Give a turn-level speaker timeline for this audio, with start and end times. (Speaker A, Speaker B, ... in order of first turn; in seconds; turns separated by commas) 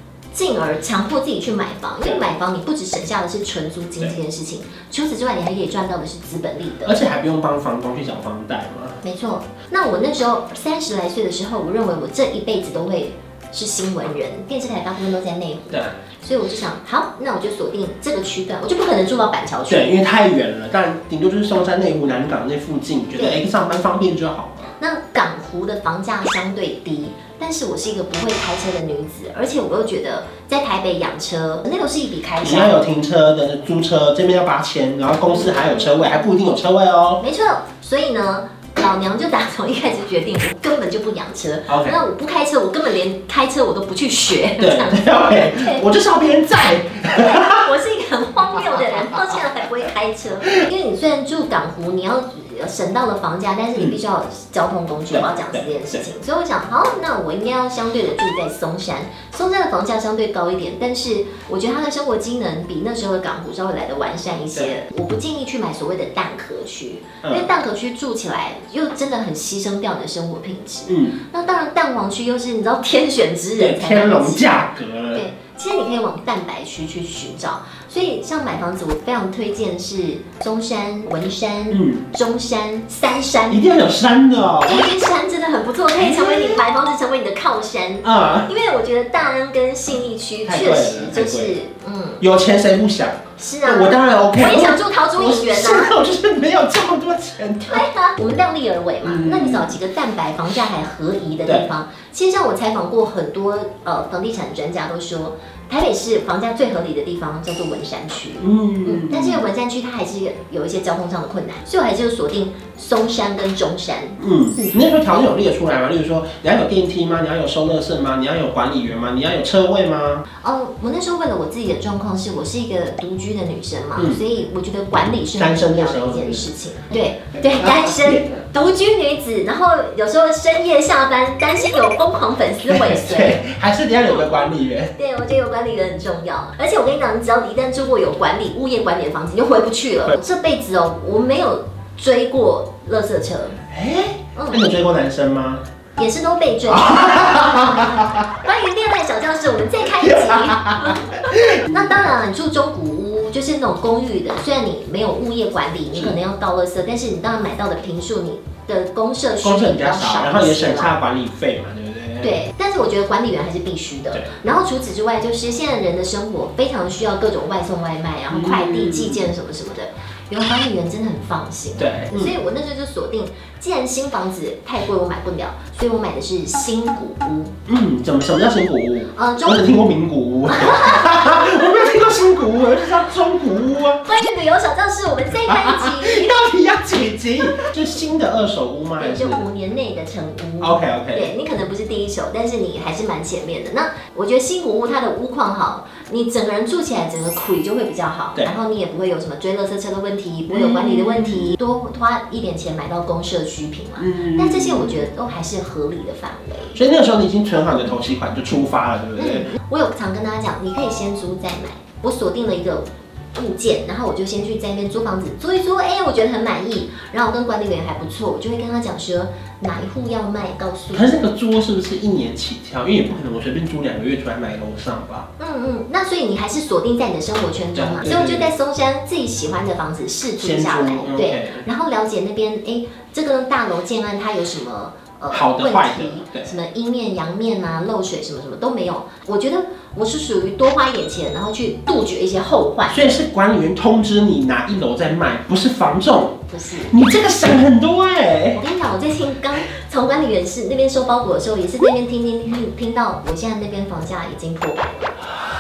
Speaker A: 0.3-7.0, Speaker B: 6.8-9.0, Speaker A: 9.0-19.9, Speaker B: 19.7-24.7, Speaker A: 24.8-32.8, Speaker B: 32.4-37.2, Speaker A: 35.2-36.1, Speaker A: 37.2-45.8, Speaker B: 41.7-42.0, Speaker B: 44.6-47.7, Speaker A: 47.3-74.6, Speaker B: 48.8-49.4, Speaker B: 55.1-56.1, Speaker B: 67.2-67.5, Speaker B: 70.9-71.2, Speaker B: 73.6-75.2, Speaker A: 75.1-83.6, Speaker B: 81.7-82.1, Speaker B: 83.5-84.9, Speaker A: 84.6-92.2, Speaker B: 86.0-86.6, Speaker B: 88.0-88.5, Speaker B: 90.5-91.6, Speaker B: 92.2-97.9, Speaker A: 93.4-95.9, Speaker A: 97.7-114.7, Speaker B: 99.0-99.8, Speaker B: 101.4-101.7, Speaker B: 108.4-109.5, Speaker B: 114.2-120.2, Speaker A: 120.4-133.4, Speaker B: 124.0-124.2, Speaker B: 125.4-126.5, Speaker B: 127.4-128.4, Speaker B: 132.7-134.9, Speaker A: 134.9-143.6, Speaker B: 143.7-145.6, Speaker A: 146.0-160.9, Speaker B: 146.7-148.3, Speaker B: 150.0-151.9, Speaker B: 159.4-162.4, Speaker A: 162.2-177.6, Speaker B: 168.3-169.3, Speaker B: 171.8-172.4, Speaker B: 177.7-184.1, Speaker A: 179.1-179.7, Speaker A: 180.5-181.8, Speaker A: 184.1-186.3, Speaker B: 185.4-189.4, Speaker A: 189.0-206.8, Speaker B: 190.6-191.3, Speaker B: 200.5-201.6, Speaker B: 204.0-205.0, Speaker B: 206.7-209.5, Speaker A: 209.2-221.2, Speaker B: 220.9-225.3, Speaker A: 225.4-243.2, Speaker B: 227.8-228.5, Speaker B: 230.4-231.7, Speaker B: 235.3-236.6, Speaker B: 242.9-248.6, Speaker A: 246.5-246.9, Speaker A: 248.6-255.1